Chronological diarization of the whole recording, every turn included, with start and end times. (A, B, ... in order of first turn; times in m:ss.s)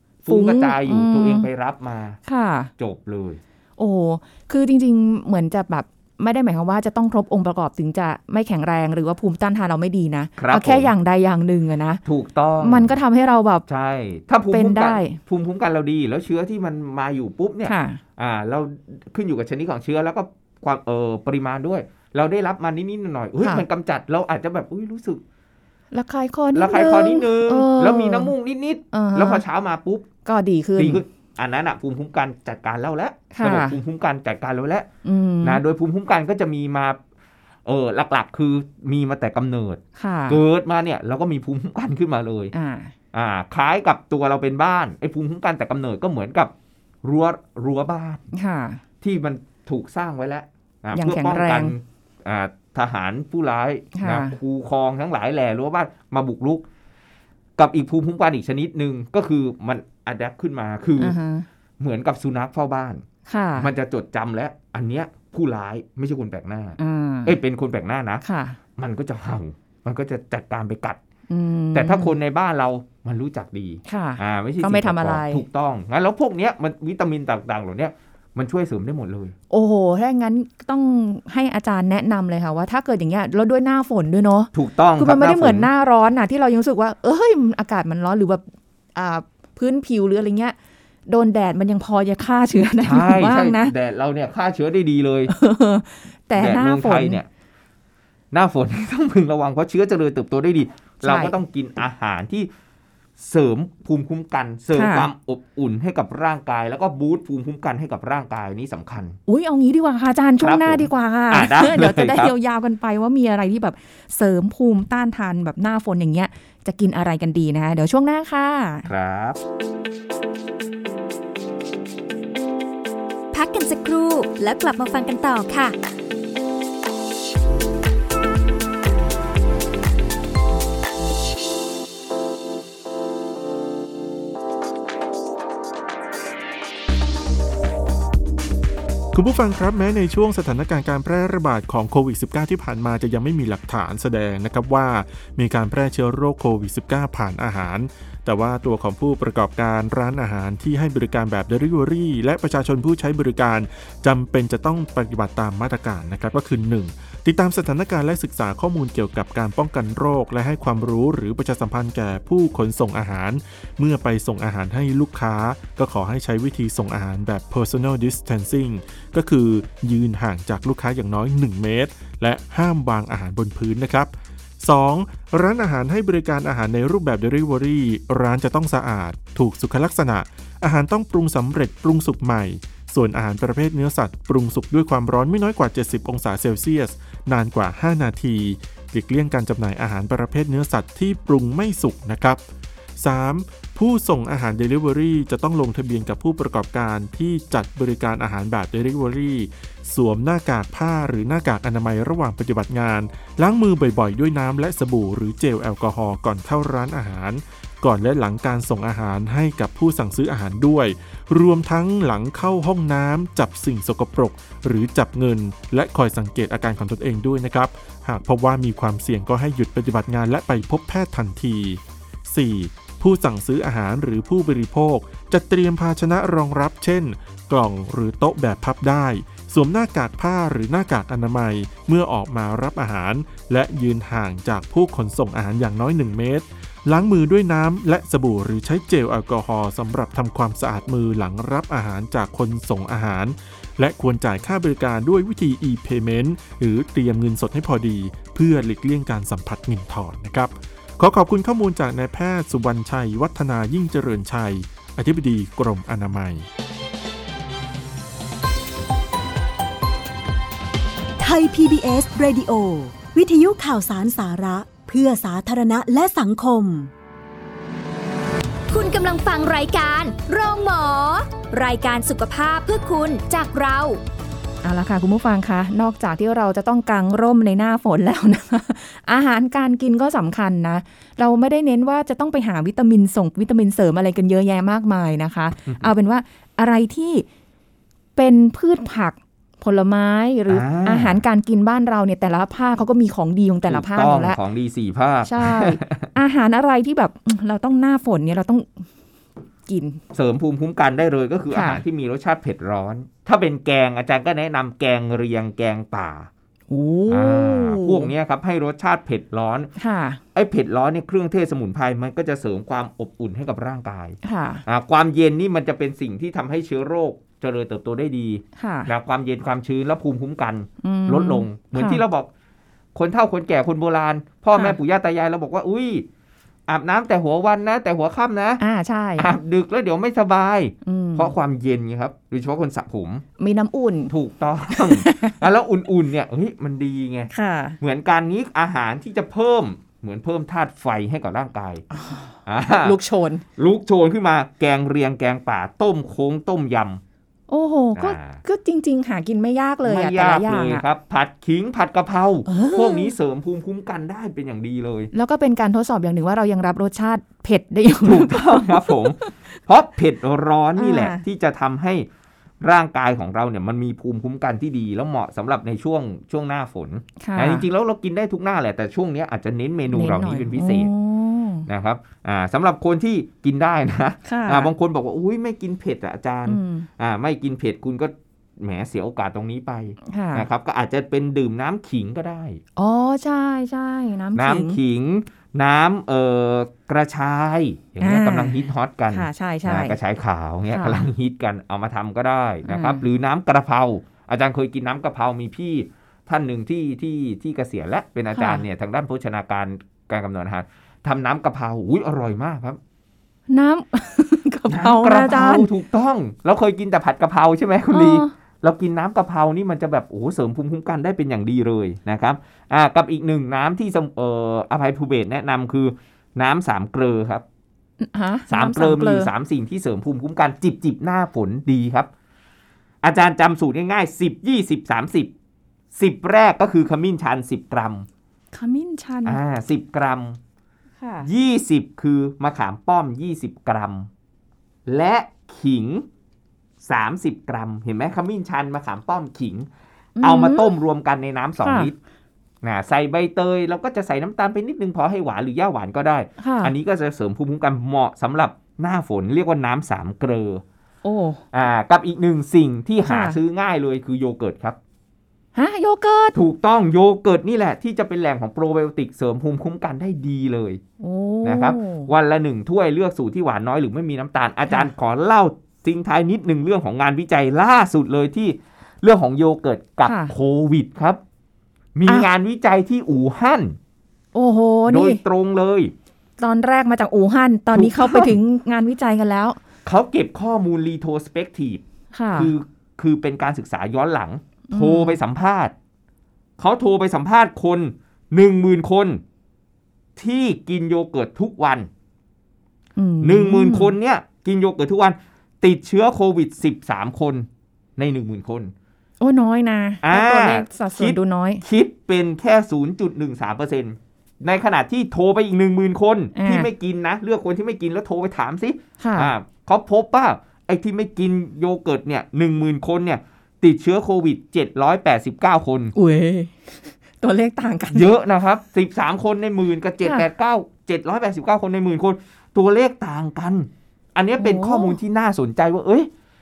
0:00.2-0:02.2 A
0:00.3-0:01.5 B
0:02.3-0:02.7 B
0:02.8-0:03.4 A
0:03.8-0:12.0 B
0:10.4-0:10.9 A
0:12.0-0:13.0 A
0:12.6-0:13.6 B
0:13.7-0:25.2 A
0:14.5-0:15.2 B
0:17.6-0:18.0 B
0:25.9-0:28.3 B
0:26.5-0:30.1 A
0:28.9-0:29.4 B
0:30.2-0:31.0 B
0:30.8-0:34.9 A
0:33.3-0:33.8 B
0:35.0-0:35.6 B
0:35.4-0:37.0 A
0:37.6-0:42.5 A
0:40.0-0:40.4 B
0:42.5-0:42.9 B
0:43.1-0:46.5 A
0:47.0-0:48.2 A
0:48.3-0:48.8 B
0:49.0-0:56.6 A
0:50.9-0:51.7 B
0:53.9-0:54.4 B
0:57.6-1:01.2 A
1:01.0-1:01.4 B
1:01.8-1:03.0 A
1:03.2-1:03.7 B
1:03.6-1:08.2 A
1:06.8-1:07.4 B
1:08.2-1:08.6 B
1:08.8-1:11.0 A
1:11.3-1:12.1 B
1:11.7-1:19.3 A
1:13.8-1:15.4 B
1:19.5-1:28.4 B
1:24.5-1:25.7 A
1:28.9-1:30.6 B
1:31.1-1:33.7 B
1:32.8-1:35.3 A
1:35.3-1:37.2 B
1:36.3-1:37.3 A
1:38.3-1:42.5 A
1:41.0-1:41.3 B
1:43.2-1:49.2 A
1:44.7-1:45.1 B
1:49.3-1:58.9 B
1:50.4-1:52.3 A
1:58.8-1:59.4 A
2:03.3-2:05.7 C
2:03.4-2:03.9 D
2:19.1-3:12.4 E
3:13.0-4:16.4 E
4:21.2-4:26.9 D
4:28.7-4:34.0 C
4:34.6-4:47.2 B
4:48.2-4:54.4 B
4:50.5-4:51.2 A
4:53.7-4:56.1 A
4:55.2-4:58.8 B
4:59.6-5:00.0 B
5:00.1-5:06.3 A
5:01.5-5:01.8 B
5:06.7-5:08.1 B
5:07.1-5:09.7 A
5:09.8-5:10.2 B
5:10.3-5:22.3 A
5:14.2-5:14.6 B
5:18.6-5:18.9 B
5:20.8-5:22.0 B
5:22.9-5:26.1 A
5:26.7-5:28.6 A
5:28.6-5:29.3 B
5:29.2-5:33.2 A
5:30.8-5:31.3 B
5:33.4-5:34.1 B
5:34.1-5:41.8 A
5:34.7-5:35.4 B
5:37.3-5:37.8 B
5:41.9-5:43.4 B
5:42.4-5:43.0 A
5:43.6-5:47.0 A
5:47.5-5:50.8 B
5:48.0-5:48.4 A
5:49.8-5:55.1 A
5:52.5-5:53.1 B
5:55.1-5:59.3 B
5:58.0-6:02.1 A
6:00.8-6:01.2 B
6:02.6-6:10.9 A
6:07.2-6:07.6 B
6:09.9-6:11.7 B
6:11.7-6:22.6 A
6:14.2-6:14.7 B
6:16.5-6:16.9 B
6:20.1-6:20.5 B
6:22.8-6:24.8 B
6:24.3-6:42.8 A
6:28.0-6:30.0 B
6:30.7-6:31.1 B
6:32.7-6:33.0 B
6:38.3-6:38.6 B
6:43.5-6:45.7 B
6:44.7-6:57.4 A
6:47.9-6:48.3 B
6:58.0-6:59.3 B
6:58.5-7:02.1 A
7:03.0-7:05.3 A
7:05.9-7:08.1 A
7:08.5-7:09.4 B
7:09.2-7:10.4 A
7:11.0-7:11.3 B
7:11.2-7:14.1 A
7:14.8-7:16.1 A
7:16.8-7:19.7 A
7:20.2-7:20.7 B
7:20.2-7:21.9 A
7:21.6-7:21.9 B
7:22.6-7:30.6 A
7:26.4-7:26.7 B
7:31.0-7:31.4 B
7:31.5-7:34.8 A
7:33.0-7:33.4 B
7:35.5-7:36.4 B
7:36.3-7:40.8 A
7:41.0-7:42.1 B
7:41.4-7:51.2 A
7:50.0-7:50.3 B
7:51.9-7:53.8 A
7:54.3-7:55.2 B
7:54.9-7:55.9 A
7:56.4-7:59.6 B
7:57.7-7:58.3 A
7:59.8-8:01.8 A
8:02.1-8:02.5 B
8:02.3-8:05.7 A
8:04.7-8:05.2 B
8:06.6-8:09.2 A
8:10.2-8:11.9 A
8:13.0-8:13.9 B
8:13.2-8:18.7 A
8:19.2-8:21.6 B
8:20.0-8:35.9 A
8:26.3-8:26.7 B
8:29.0-8:29.3 B
8:35.9-8:38.1 B
8:37.9-8:46.1 A
8:44.4-8:45.0 B